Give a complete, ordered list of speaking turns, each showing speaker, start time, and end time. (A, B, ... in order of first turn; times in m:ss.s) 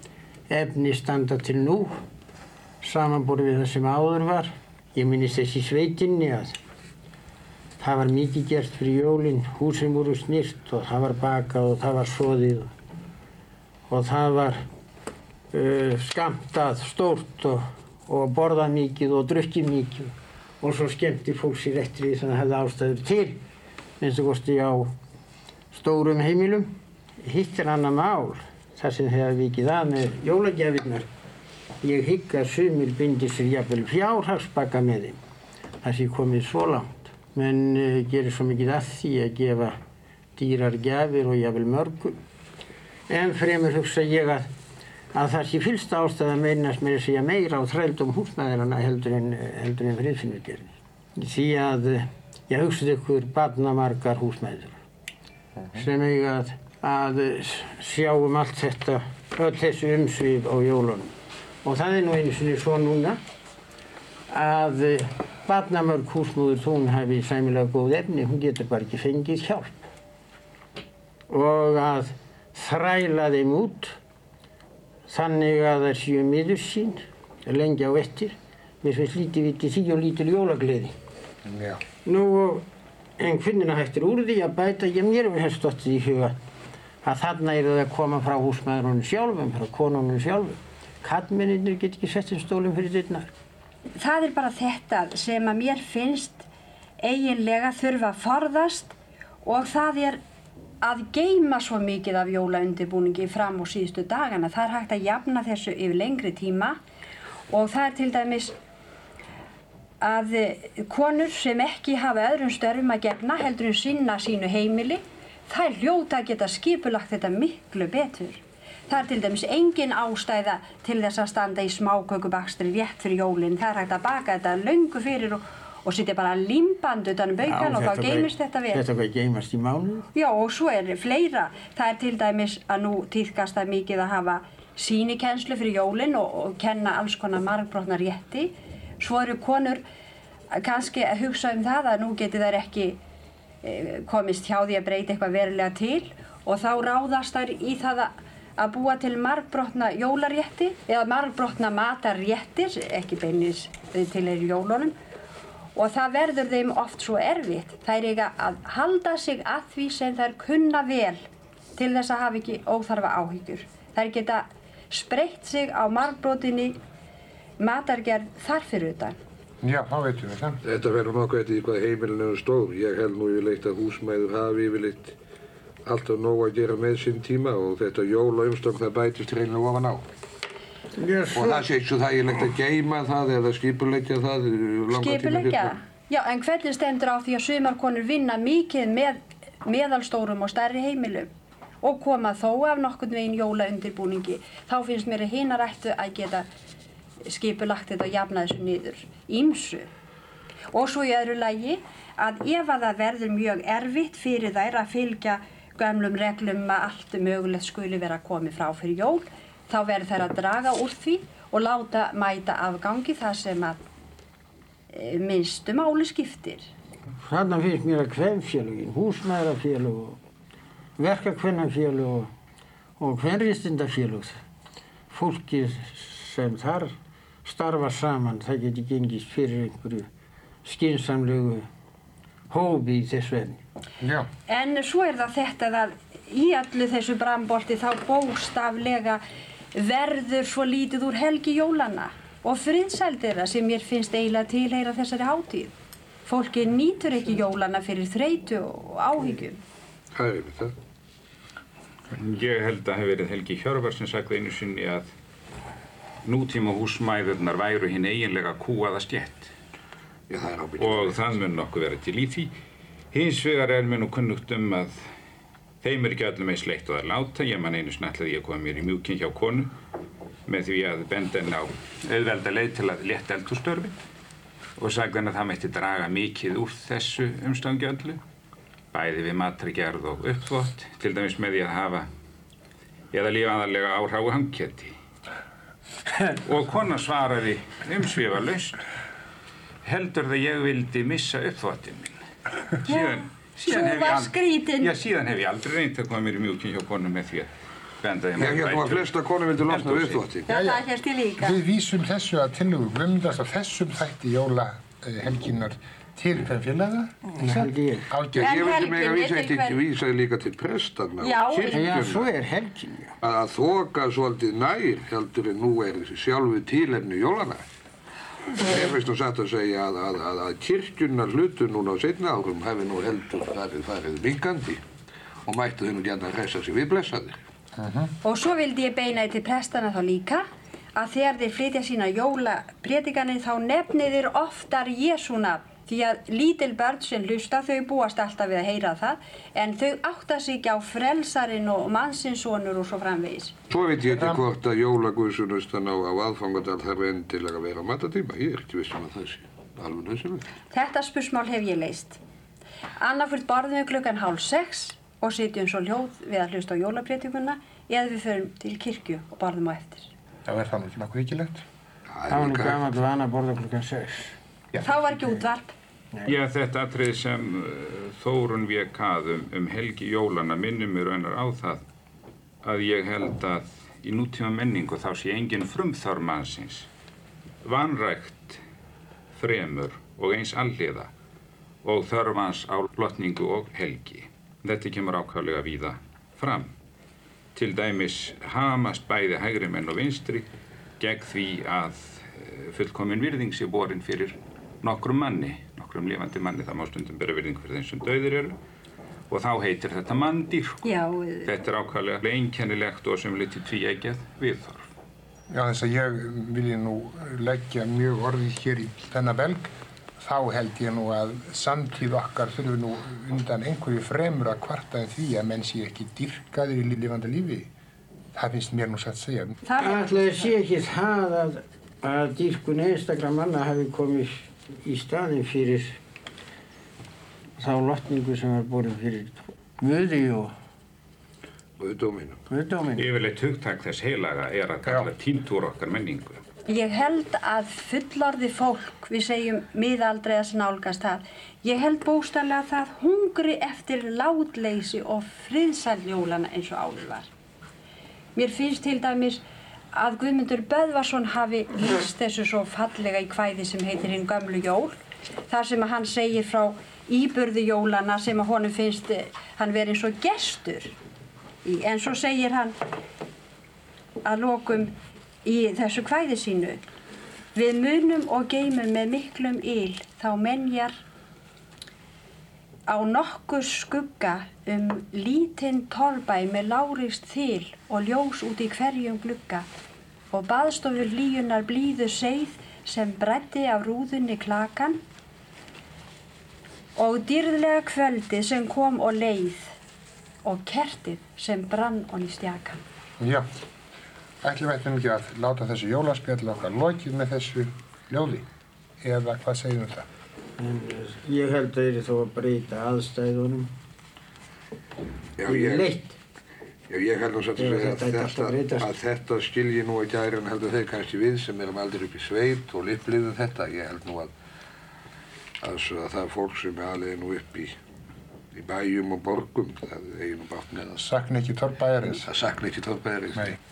0:00.5-0:02.0 A
0:02.8-0:06.6 A
0:07.8-0:12.7 A
0:13.9-0:14.6 A
0:15.5-0:23.4 A
0:24.0-0:24.9 A
0:25.7-0:26.7 A
0:27.2-0:31.1 A
0:31.8-0:35.2 A
0:35.8-0:39.8 A
0:40.4-0:42.2 A
0:43.1-0:44.5 A
0:45.1-0:54.8 A
0:55.7-1:01.1 A
1:01.6-1:03.2 A
1:04.3-1:09.8 A
1:11.3-1:14.0 A
1:15.1-1:20.9 A
1:21.4-1:21.8 B
1:22.0-1:22.6 A
1:23.2-1:26.4 A
1:27.0-1:33.3 A
1:34.0-1:36.4 C
1:37.0-1:40.2 C
1:40.8-1:46.8 C
1:47.5-1:48.6 C
1:50.0-2:08.8 C
2:07.4-2:10.0 A
2:10.1-2:19.8 C
2:20.5-2:23.0 C
2:23.6-2:34.9 C
2:35.8-2:41.2 C
2:41.8-2:46.8 C
2:47.6-2:49.2 C
2:49.6-2:50.6 B
2:50.6-2:55.1 D
2:55.8-3:00.0 D
3:01.0-3:01.6 A
3:01.3-3:05.7 D
3:04.9-3:11.3 C
3:11.8-3:16.5 C
3:17.2-3:19.9 C
3:20.7-3:33.8 C
3:34.9-3:36.7 C
3:37.2-3:40.2 A
3:41.0-3:42.3 A
3:43.0-3:44.4 A
3:45.1-3:46.9 A
3:47.4-3:50.1 A
3:50.6-3:51.7 A
3:52.5-3:53.6 A
3:54.0-3:54.3 B
3:54.5-3:59.2 C
3:59.7-4:05.7 C
4:06.2-4:09.6 C
4:10.1-4:10.7 D
4:12.2-4:15.1 E
4:16.2-4:19.5 E
4:20.3-4:21.3 D
4:20.8-4:22.5 E
4:23.1-4:25.0 E
4:25.8-4:29.7 E
4:30.5-4:33.9 E
4:34.8-4:38.2 E
4:38.9-4:42.1 E
4:43.1-4:45.0 E
4:46.4-4:48.8 E
4:49.8-4:52.2 E
4:52.8-4:59.1 E
4:52.9-4:54.9 C
4:58.4-5:00.5 D
4:59.7-5:00.2 E
5:00.4-5:01.6 C
5:00.5-5:00.8 B
5:01.4-5:08.4 B
5:07.3-5:08.1 A
5:08.3-5:12.3 D
5:08.4-5:09.8 C
5:11.2-5:11.9 C
5:11.5-5:13.1 A
5:13.2-5:17.6 D
5:18.6-5:24.8 D
5:25.4-5:27.4 D
5:27.8-5:28.1 B
5:28.2-5:43.5 C
5:43.7-5:50.5 D
5:50.7-5:52.2 C
5:53.0-6:00.1 C
6:00.5-6:01.6 B
6:02.1-6:03.0 D
6:02.3-6:04.3 A
6:04.7-6:05.0 B
6:04.8-6:05.7 C
6:06.2-6:11.8 E
6:12.6-6:16.9 E
6:17.6-6:18.6 E
6:19.3-6:21.1 E
6:21.8-6:26.7 E
6:27.5-6:30.5 E
6:31.0-6:38.6 E
6:39.3-6:40.9 E
6:40.8-6:41.5 C
6:41.4-6:44.9 E
6:45.5-6:57.7 B
6:58.3-6:59.6 B
6:59.6-7:00.2 C
6:59.8-7:06.0 A
7:07.6-7:10.5 A
7:11.8-7:12.4 D
7:12.5-7:13.1 A
7:13.0-7:16.4 E
7:16.7-7:27.3 C
7:28.4-7:29.4 C
7:29.9-7:35.0 C
7:35.5-7:41.0 C
7:41.6-7:42.8 C
7:44.2-7:46.8 C
7:47.5-7:51.0 C
7:52.9-7:59.7 C
8:00.3-8:05.0 C
8:07.0-8:09.7 C
8:10.4-8:12.8 C
8:13.2-8:13.5 B
8:14.4-8:18.4 B
8:19.0-8:20.0 B
8:20.6-8:23.7 A
8:25.4-8:26.0 D
8:25.4-8:26.1 A
8:26.9-8:34.3 D
8:27.6-8:28.9 A
8:35.6-8:37.8 D
8:38.5-8:41.1 D
8:41.0-8:42.2 B
8:42.1-8:43.5 D